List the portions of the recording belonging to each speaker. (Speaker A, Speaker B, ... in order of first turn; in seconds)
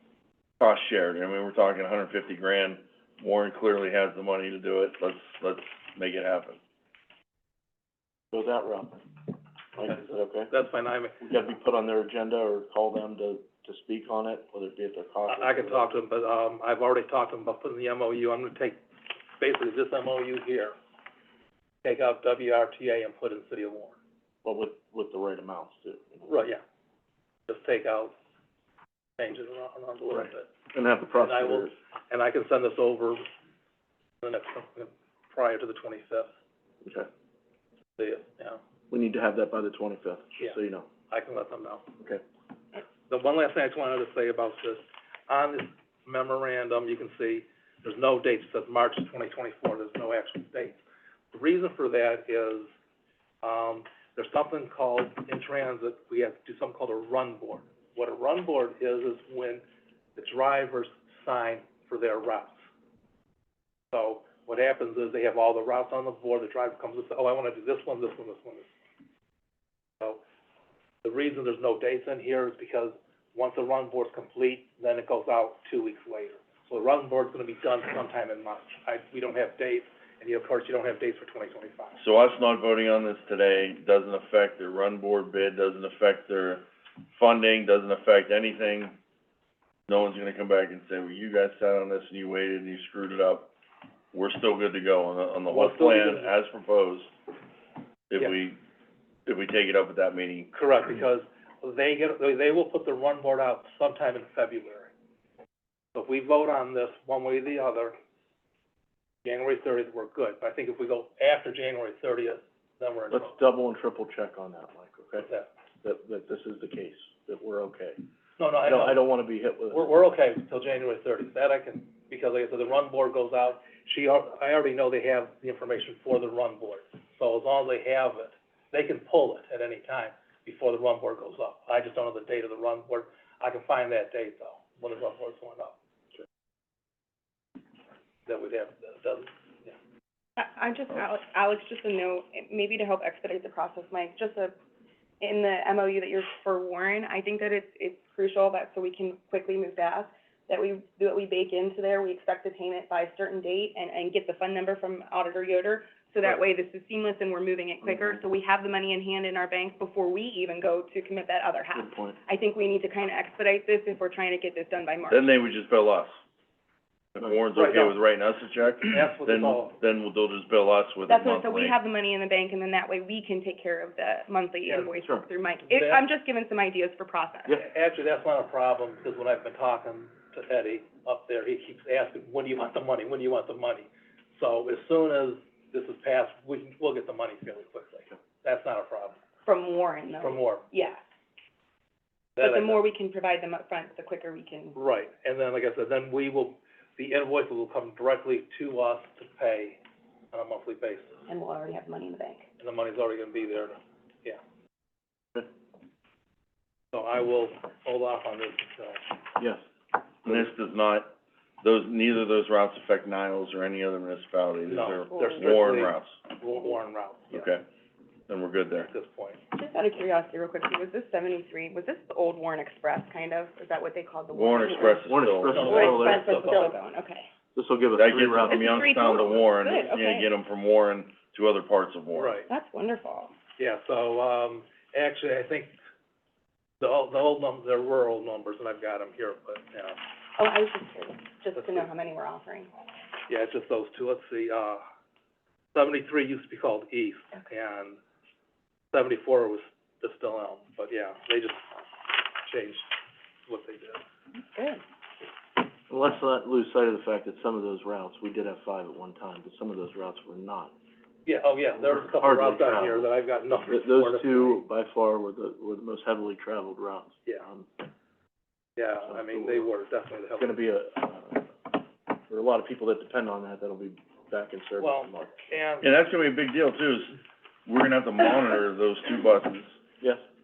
Speaker A: 0.6-6.6, 82.0-89.0, 89.9-93.5, 94.1-97.1, 98.1-98.6, 99.3-100.5, 165.1-166.2, 167.2-171.8, 210.2-216.2, 217.3-217.6, 218.3-218.9, 224.3-225.9, 228.0-232.4, 275.8-279.8
Speaker B: 8.3-9.2, 9.8-10.5, 11.2-16.0, 24.4-26.2, 30.1-31.8, 36.8-37.1, 38.9-40.9, 113.1-115.3, 115.8-118.0, 118.6-119.9, 157.8-158.2, 161.7-162.2, 209.4-209.6, 224.9-226.5, 227.6-229.2, 255.9-260.7, 261.8-263.1, 263.7-267.8, 269.1-269.7, 270.4-275.5
Speaker C: 10.5-11.2, 15.3-18.8, 19.4-20.8, 21.8-24.0, 26.2-26.6, 27.5-28.1, 29.2-30.5, 31.2-33.3, 34.2-36.3, 38.0-38.6, 41.1-41.9, 43.1-50.8, 51.3-52.7, 53.4-59.6, 60.2-62.6, 63.9-68.7, 71.0-82.0, 95.5-96.3, 100.5-104.9, 106.0-108.0, 109.2-113.3, 115.2-115.5, 118.4-119.1, 119.7-135.8, 138.3-139.7, 167.6-168.0, 168.9-169.8, 174.7-174.9, 175.7-176.0, 177.6-189.2, 190.2-190.7, 192.4-192.8, 194.7-199.8, 200.3-201.2, 202.6-204.4, 206.9-209.0, 214.7-217.5, 218.8-219.4, 225.5-226.8, 232.1-232.5, 233.6-235.8, 236.8-240.0, 241.6-241.9, 243.3-244.8, 245.7-248.0, 248.9-251.6, 252.4-252.9, 253.5-254.0, 261.3-264.6, 268.8-270.6, 274.8-275.9
Speaker D: 140.4-144.5, 145.2-165.3, 171.1-177.6, 189.5-191.0, 192.4-194.8, 201.3-202.4, 214.9-215.7, 219.5-227.3, 228.5-230.3, 232.5-233.3, 240.4-242.7, 254.5-254.8